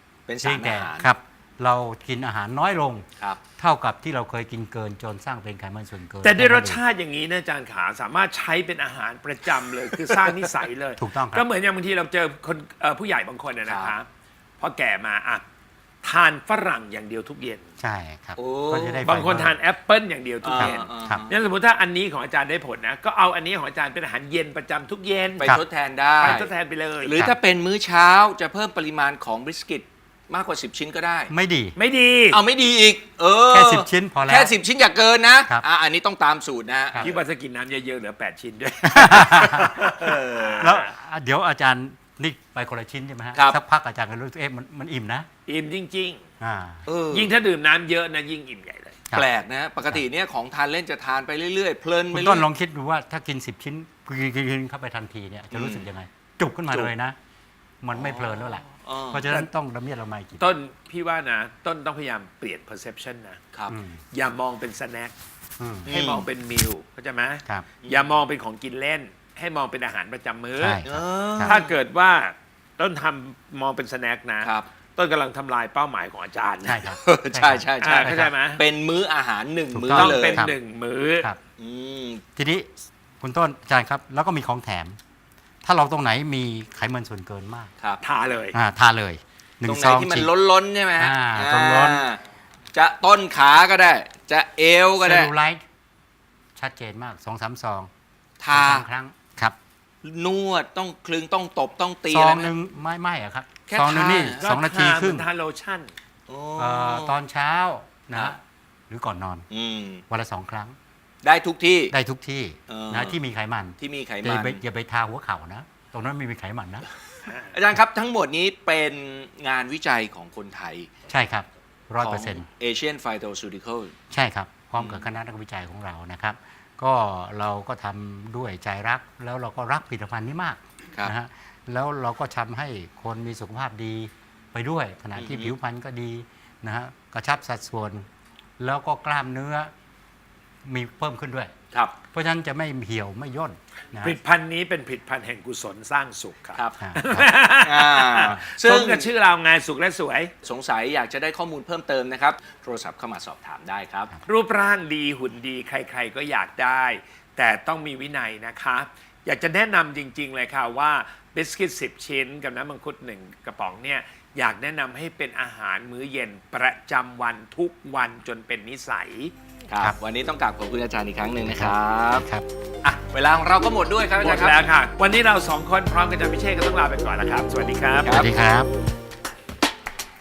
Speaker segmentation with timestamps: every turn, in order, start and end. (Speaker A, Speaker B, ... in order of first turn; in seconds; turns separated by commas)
Speaker A: 0.3-1.1, Speaker B: 0.4-3.1, Speaker B: 3.6-6.8, Speaker C: 6.2-14.1, Speaker B: 11.0-11.4, Speaker A: 13.6-13.9, Speaker C: 14.6-15.4, Speaker C: 16.0-17.7, Speaker B: 17.8-19.6, Speaker A: 18.4-19.1, Speaker C: 19.0-25.5, Speaker A: 20.4-21.4, Speaker B: 20.5-21.2, Speaker A: 25.4-26.5, Speaker C: 26.2-27.2, Speaker A: 27.0-31.3, Speaker B: 31.3-31.8, Speaker C: 31.8-32.4, Speaker A: 32.3-37.1, Speaker B: 33.5-34.5, Speaker C: 37.0-40.2, Speaker B: 38.9-40.0, Speaker A: 40.0-40.8, Speaker B: 40.6-45.3, Speaker A: 43.3-43.6, Speaker C: 45.5-46.2, Speaker B: 46.4-46.9, Speaker A: 46.9-47.3, Speaker C: 47.1-49.1, Speaker A: 49.1-52.5, Speaker B: 52.1-57.2, Speaker A: 55.5-55.9, Speaker B: 57.8-60.5, Speaker A: 57.9-59.3, Speaker C: 60.4-63.4, Speaker A: 63.5-63.8, Speaker B: 63.7-64.0, Speaker C: 64.1-65.1, Speaker B: 65.6-65.9, Speaker A: 65.8-66.3, Speaker C: 65.9-70.8, Speaker A: 67.8-68.1, Speaker B: 70.6-71.6, Speaker A: 70.8-71.8, Speaker C: 71.4-76.8, Speaker A: 74.4-74.7, Speaker B: 76.7-78.3, Speaker A: 76.7-80.5, Speaker C: 77.8-78.6, Speaker B: 79.7-80.6, Speaker C: 79.9-81.3, Speaker A: 81.6-82.2, Speaker B: 82.4-82.7, Speaker B: 83.2-85.0, Speaker B: 85.6-87.7, Speaker C: 88.0-88.6, Speaker B: 88.5-90.3, Speaker A: 89.6-92.2, Speaker B: 91.0-92.0, Speaker A: 92.7-95.3, Speaker B: 95.0-95.6, Speaker B: 96.6-97.9, Speaker A: 98.4-98.9, Speaker B: 98.5-99.6, Speaker A: 100.0-102.5, Speaker B: 102.1-105.3, Speaker A: 103.7-104.4, Speaker C: 104.3-105.9, Speaker A: 106.3-107.2, Speaker B: 106.6-109.5, Speaker A: 108.1-108.4, Speaker A: 109.5-110.0, Speaker B: 110.1-110.8, Speaker A: 111.2-112.0, Speaker B: 111.9-116.9, Speaker A: 112.7-113.2, Speaker A: 113.8-114.6, Speaker C: 117.2-117.6, Speaker A: 117.5-120.9, Speaker B: 121.1-122.5, Speaker A: 122.0-124.0, Speaker B: 124.1-138.1, Speaker A: 124.8-125.1, Speaker A: 135.2-135.5, Speaker B: 138.6-139.7, Speaker B: 140.7-141.5, Speaker A: 141.7-142.0, Speaker B: 142.1-144.2, Speaker C: 144.0-150.3, Speaker B: 146.8-147.3, Speaker A: 147.5-149.1, Speaker A: 150.4-154.1, Speaker C: 154.3-169.3, Speaker A: 169.7-172.3, Speaker B: 171.4-172.5, Speaker A: 172.8-174.7, Speaker C: 174.1-178.2, Speaker A: 178.0-178.3, Speaker B: 178.1-178.7